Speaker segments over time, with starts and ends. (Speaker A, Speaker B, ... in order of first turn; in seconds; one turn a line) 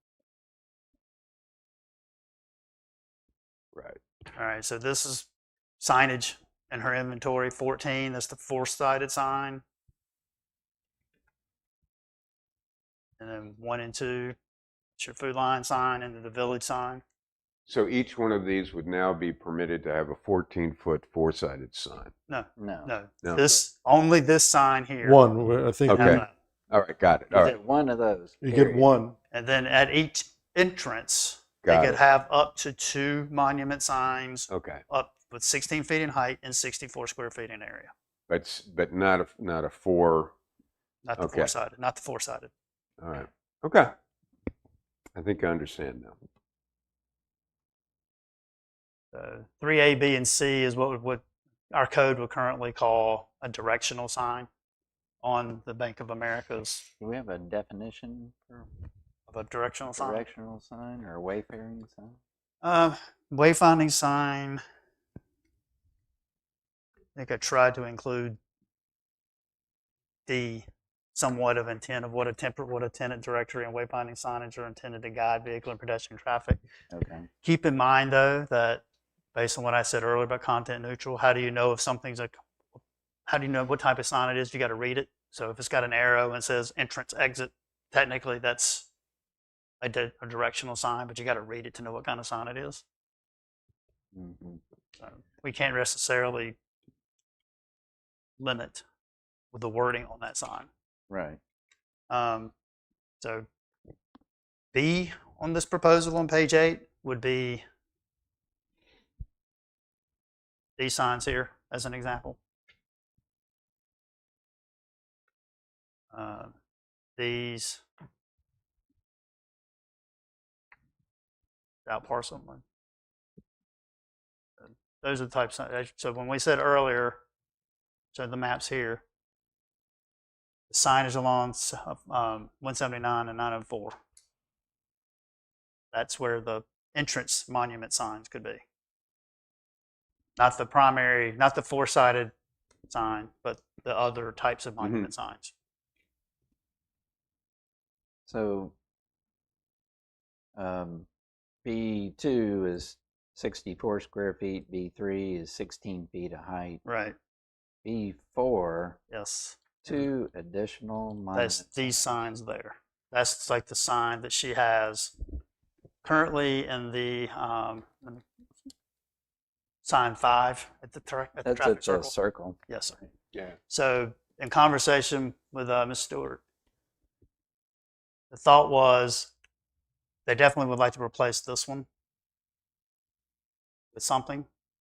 Speaker A: 3.8-4.0
Speaker B: 4.3-9.6
Speaker B: 13.2-14.3
Speaker B: 15.0-17.0
Speaker A: 17.7-22.1
Speaker B: 22.3-25.2
Speaker C: 22.6-22.9
Speaker D: 25.0-26.2
Speaker A: 25.9-27.6
Speaker B: 25.9-26.3
Speaker C: 27.3-28.9
Speaker D: 28.4-29.2
Speaker B: 29.3-37.9
Speaker A: 31.6-32.0
Speaker A: 34.5-34.8
Speaker A: 38.3-40.3
Speaker B: 41.0-42.5
Speaker A: 41.2-41.5
Speaker A: 43.0-43.9
Speaker A: 45.2-46.1
Speaker B: 49.1-54.5
Speaker B: 55.2-56.9
Speaker C: 57.0-58.7
Speaker B: 59.3-60.3
Speaker C: 60.0-62.2
Speaker B: 62.6-64.6
Speaker B: 67.2-68.4
Speaker B: 70.3-76.6
Speaker C: 76.9-77.3
Speaker B: 77.4-78.8
Speaker B: 79.3-82.4
Speaker B: 83.3-88.9
Speaker B: 89.8-92.8
Speaker C: 94.1-94.6
Speaker B: 95.0-96.6
Speaker B: 98.4-98.8
Speaker B: 99.5-100.7
Speaker C: 101.1-101.4
Speaker B: 102.1-102.5
Speaker B: 103.2-103.5
Speaker B: 104.7-107.6
Speaker B: 110.8-112.4
Speaker B: 116.1-116.5
Speaker B: 117.2-117.8
Speaker B: 121.8-122.6
Speaker B: 124.6-127.2
Speaker B: 128.1-129.0
Speaker B: 130.7-134.0
Speaker B: 135.9-138.6
Speaker B: 140.4-142.3
Speaker B: 142.9-145.5
Speaker A: 144.8-145.1
Speaker C: 148.2-148.7
Speaker C: 150.6-151.1
Speaker C: 151.7-156.8
Speaker B: 156.8-157.2
Speaker C: 157.8-159.0
Speaker B: 159.1-160.1
Speaker C: 159.8-162.1
Speaker B: 161.3-165.1
Speaker B: 166.0-168.2
Speaker B: 169.8-172.2
Speaker C: 171.4-172.7
Speaker B: 172.7-173.0
Speaker B: 173.7-176.4
Speaker B: 178.3-179.3
Speaker B: 180.2-181.9
Speaker B: 183.9-184.5